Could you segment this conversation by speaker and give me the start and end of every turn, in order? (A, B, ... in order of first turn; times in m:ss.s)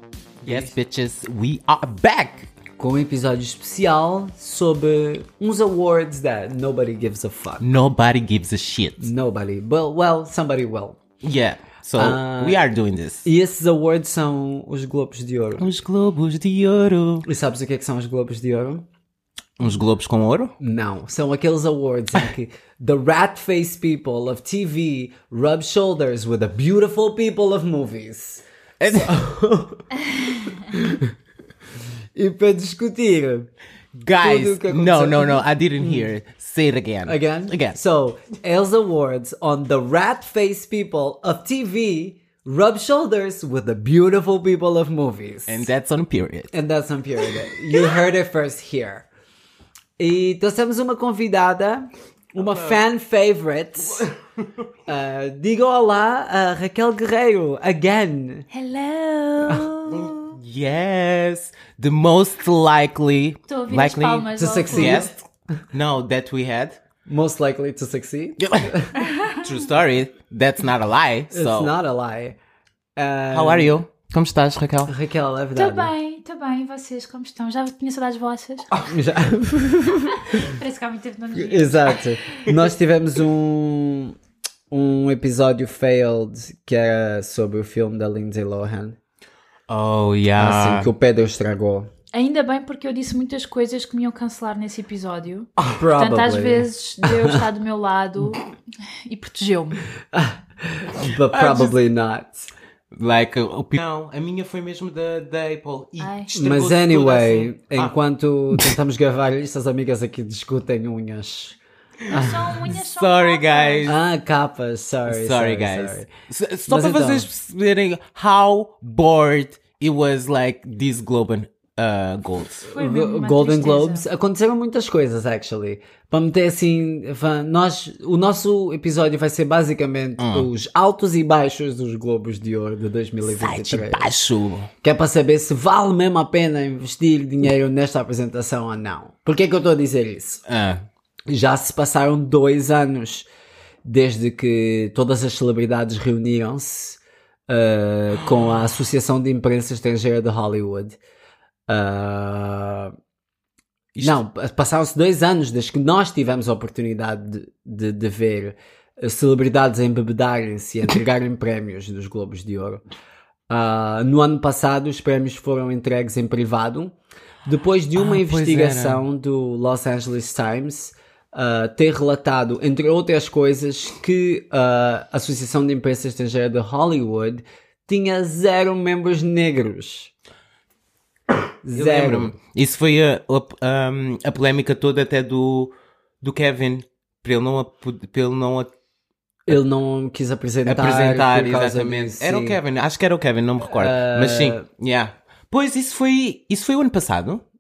0:00.4-0:00.7 A
0:00.4-0:02.5 B
0:02.8-0:07.7 A
0:07.6-0:09.1 B
0:09.0-0:11.0 A
0:11.2-0:13.3 B
0:12.0-0:12.7 A
0:13.2-0:15.7 A
0:15.6-0:17.3 B
0:17.2-0:18.9 A
0:19.6-0:20.5 B
0:20.6-0:31.1 A
0:28.8-0:29.2 B
0:32.2-0:33.5 A
0:34.0-0:37.8 B
0:34.2-0:36.1 A
0:37.1-0:45.7 A
0:45.5-0:46.5 B
0:46.5-0:49.1 A
0:50.0-0:54.1 A
0:52.4-0:52.8 B
0:54.9-0:58.5 A
0:58.5-1:00.2 C
0:59.9-1:05.2 B
1:03.5-1:05.1 C
1:04.4-1:05.2 A
1:05.7-1:06.8 B
1:07.1-1:08.9 A
1:08.4-1:08.7 B
1:09.0-1:09.4 C
1:09.3-1:11.7 B
1:11.3-1:12.4 A
1:13.0-1:13.8 A
1:13.3-1:14.9 B
1:14.9-1:15.9 A
1:15.6-1:18.7 C
1:18.8-1:20.5 A
1:20.2-1:22.3 C
1:21.3-1:24.2 A
1:24.7-1:29.0 A
1:29.7-1:30.9 B
1:30.4-1:31.9 A
1:32.1-1:39.8 C
1:35.6-1:37.4 A
1:40.1-1:42.5 A
1:41.3-1:41.8 B
1:42.9-1:48.0 B
1:46.0-1:46.3 C
1:46.3-1:52.8 A
1:52.1-1:53.9 C
1:52.8-1:54.0 B
1:53.8-1:56.1 A
1:55.1-2:02.7 B
1:56.7-1:57.3 A
2:02.7-2:04.0 C
2:02.8-2:14.1 A
2:10.2-2:10.5 B
2:13.2-2:14.7 B
2:14.8-2:20.4 A
2:20.5-2:20.8 B
2:21.3-2:23.3 A
2:23.8-2:31.0 A
2:31.7-2:32.9 A
2:34.0-2:42.8 A
2:43.5-2:46.9 A
2:47.5-3:00.1 A
2:48.0-2:49.0 B
3:01.6-3:02.4 A
3:01.7-3:08.7 B
3:09.5-3:12.6 A
3:10.6-3:17.4 B
3:13.6-3:14.6 A